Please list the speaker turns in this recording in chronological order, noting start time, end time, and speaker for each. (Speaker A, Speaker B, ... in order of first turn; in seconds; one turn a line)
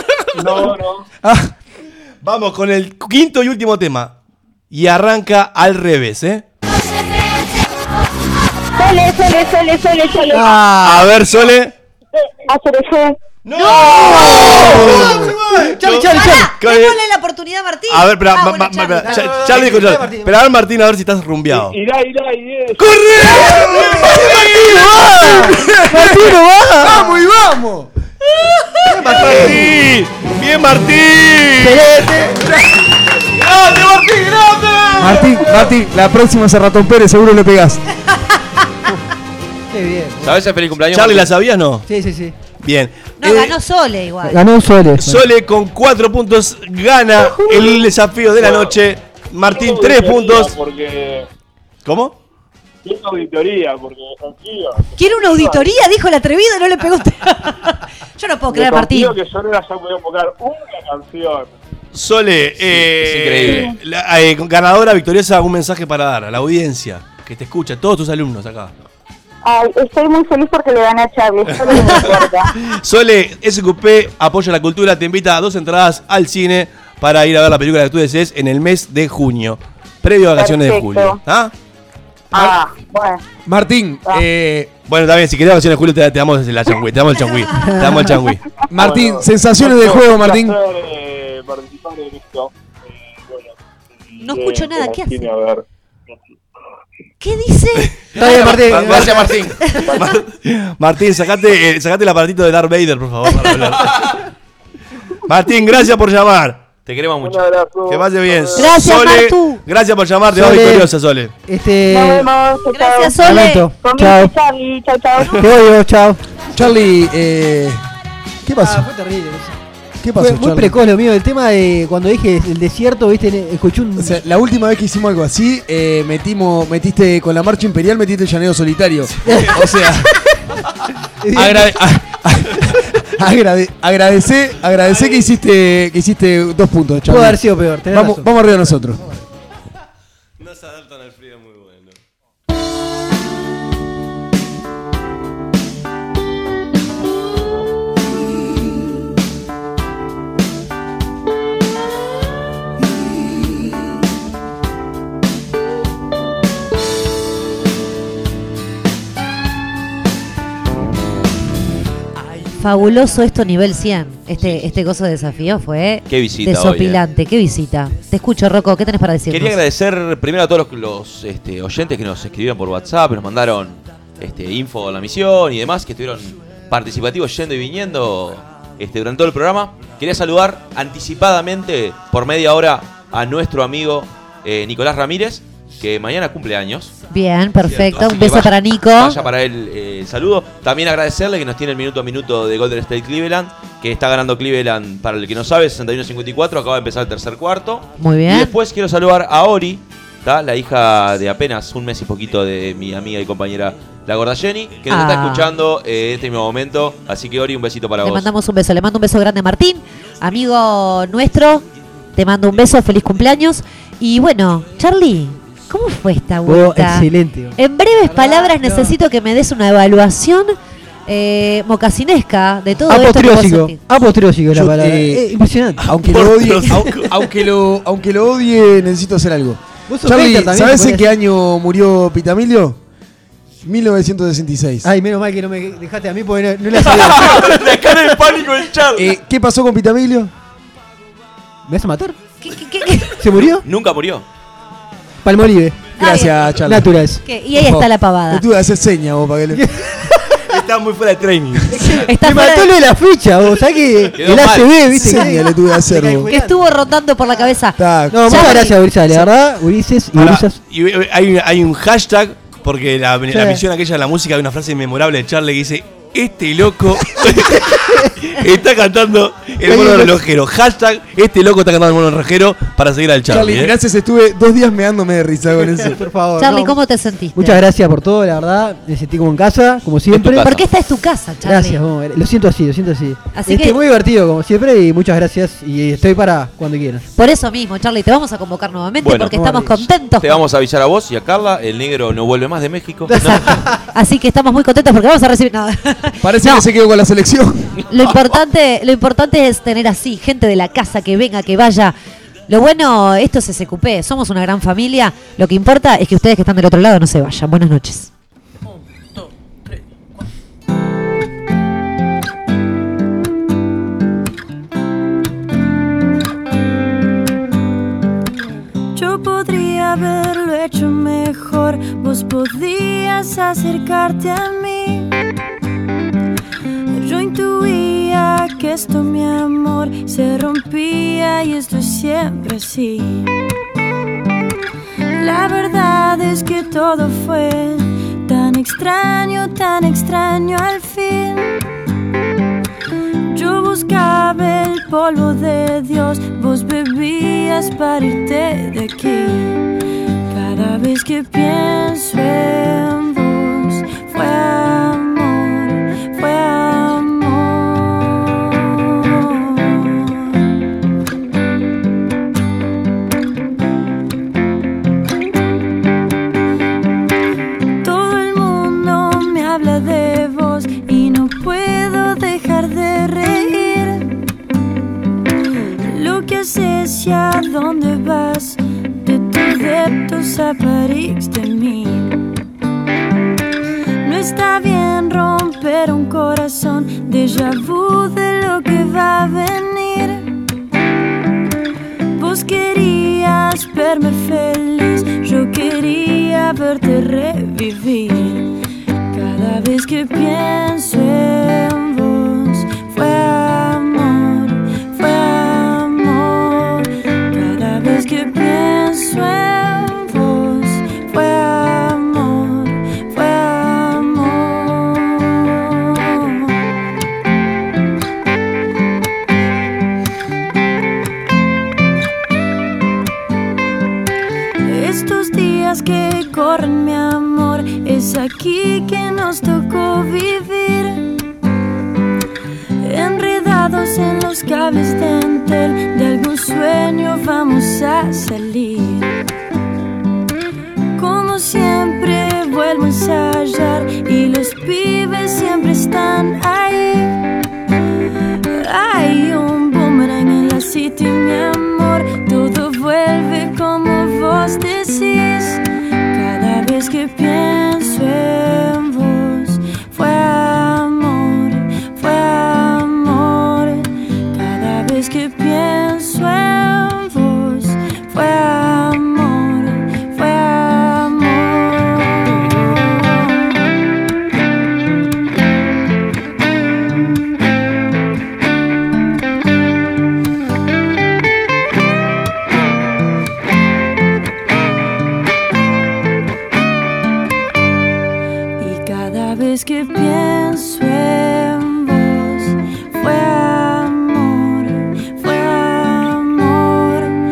Speaker A: 0.3-1.1
Speaker B: 1.2-1.5
Speaker C: 2.2-4.2
Speaker C: 4.7-6.4
Speaker D: 8.8-10.6
Speaker E: 10.3-11.2
Speaker C: 10.8-11.7
Speaker D: 12.5-13.2
Speaker C: 13.4-17.0
Speaker F: 13.6-15.1
Speaker E: 13.9-16.5
Speaker F: 16.1-19.1
Speaker C: 17.9-21.8
Speaker E: 19.0-20.4
Speaker A: 21.5-22.9
Speaker B: 22.8-27.9
Speaker C: 22.9-25.8
Speaker E: 23.7-27.2
Speaker E: 28.8-29.8
Speaker C: 28.9-32.1
Speaker E: 31.6-32.4
Speaker G: 33.4-35.1
Speaker B: 35.0-37.8
Speaker E: 35.0-35.6
Speaker E: 39.7-40.4
Speaker G: 40.2-41.3
Speaker C: 40.9-41.9
Speaker E: 41.9-42.4
Speaker C: 42.6-43.5
Speaker F: 43.2-44.4
Speaker E: 44.2-45.2
Speaker C: 44.9-50.5
Speaker A: 48.4-48.8
Speaker A: 49.5-51.3
Speaker C: 51.8-52.2
Speaker A: 52.8-55.8
Speaker F: 55.0-59.2
Speaker A: 58.5-61.5
Speaker C: 61.9-68.7
Speaker G: 62.6-63.7
Speaker D: 63.4-63.8
Speaker D: 69.4-72.5
Speaker C: 71.7-81.5
Speaker D: 80.3-81.2
Speaker D: 82.3-83.2
Speaker B: 83.5-84.7
Speaker C: 84.9-88.4
Speaker E: 87.6-88.2
Speaker B: 88.7-90.6
Speaker A: 88.7-93.5
Speaker A: 94.1-96.1
Speaker F: 94.2-95.3
Speaker F: 97.2-97.9
Speaker C: 97.8-104.2
Speaker G: 98.1-99.8
Speaker E: 98.2-99.4
Speaker A: 99.8-100.1
Speaker C: 105.3-106.6
Speaker G: 106.8-107.5
Speaker A: 107.2-108.8
Speaker C: 107.9-111.3
Speaker F: 108.5-109.6
Speaker E: 110.3-110.9
Speaker E: 111.5-112.3
Speaker D: 111.9-115.4
Speaker F: 112.7-113.7
Speaker E: 113.2-114.3
Speaker E: 115.4-116.2
Speaker B: 116.5-117.8
Speaker B: 118.4-118.8
Speaker E: 118.6-119.5
Speaker B: 120.0-120.8
Speaker E: 120.2-124.2
Speaker B: 124.0-130.3
Speaker E: 129.2-129.6
Speaker E: 131.2-131.8
Speaker B: 131.3-139.0
Speaker C: 134.8-135.3
Speaker E: 137.1-138.5
Speaker C: 140.4-141.9
Speaker F: 162.6-169.6
Speaker G: 166.1-167.0
Speaker G: 169.3-186.9
Speaker F: 187.1-189.2
Speaker G: 187.7-208.3
Speaker F: 198.0-198.5
Speaker F: 204.9-205.5
Speaker F: 208.0-211.6
Speaker F: 212.1-223.8
Speaker E: 216.4-218.9
Speaker E: 222.8-226.0
Speaker B: 224.5-225.3
Speaker B: 225.8-232.8
Speaker C: 225.9-227.2
Speaker E: 229.9-231.1
Speaker B: 233.6-234.9
Speaker E: 234.8-237.6
Speaker G: 236.7-239.1
Speaker B: 238.9-240.3
Speaker E: 241.7-242.2
Speaker F: 242.4-243.3
Speaker E: 243.2-243.6
Speaker G: 243.6-244.2
Speaker E: 245.2-245.8
Speaker F: 246.0-246.6
Speaker B: 246.0-246.9
Speaker E: 246.6-247.2
Speaker F: 247.2-248.4
Speaker B: 247.5-249.7
Speaker E: 249.5-250.4
Speaker C: 250.4-251.9
Speaker E: 251.7-256.7
Speaker F: 252.1-252.7
Speaker G: 254.2-254.7
Speaker B: 254.9-256.3
Speaker F: 256.3-259.3
Speaker B: 257.8-258.6
Speaker E: 258.1-260.6
Speaker C: 260.1-273.7
Speaker E: 263.3-263.6
Speaker E: 267.6-268.1
Speaker E: 269.6-270.2
Speaker B: 273.3-276.0
Speaker E: 275.8-276.8
Speaker F: 276.4-277.6
Speaker E: 277.3-280.5
Speaker G: 280.1-280.6
Speaker F: 280.4-281.8
Speaker E: 281.4-287.1
Speaker F: 283.3-283.8
Speaker F: 287.1-290.4
Speaker G: 289.0-289.4
Speaker E: 289.3-289.8
Speaker G: 290.1-293.6
Speaker E: 293.1-293.8
Speaker F: 293.4-296.6
Speaker B: 296.2-297.7
Speaker F: 297.9-301.9
Speaker F: 302.5-308.1
Speaker H: 318.9-325.1
Speaker H: 326.9-333.3
Speaker H: 335.2-341.6
Speaker H: 343.3-349.6
Speaker H: 350.3-360.2
Speaker H: 367.8-374.1
Speaker H: 375.9-382.2
Speaker H: 384.0-390.3
Speaker H: 392.1-398.5
Speaker H: 399.1-416.5
Speaker H: 424.6-431.1
Speaker H: 432.8-439.1
Speaker H: 440.9-447.2
Speaker H: 448.5-455.6
Speaker H: 456.1-473.5
Speaker H: 488.6-497.1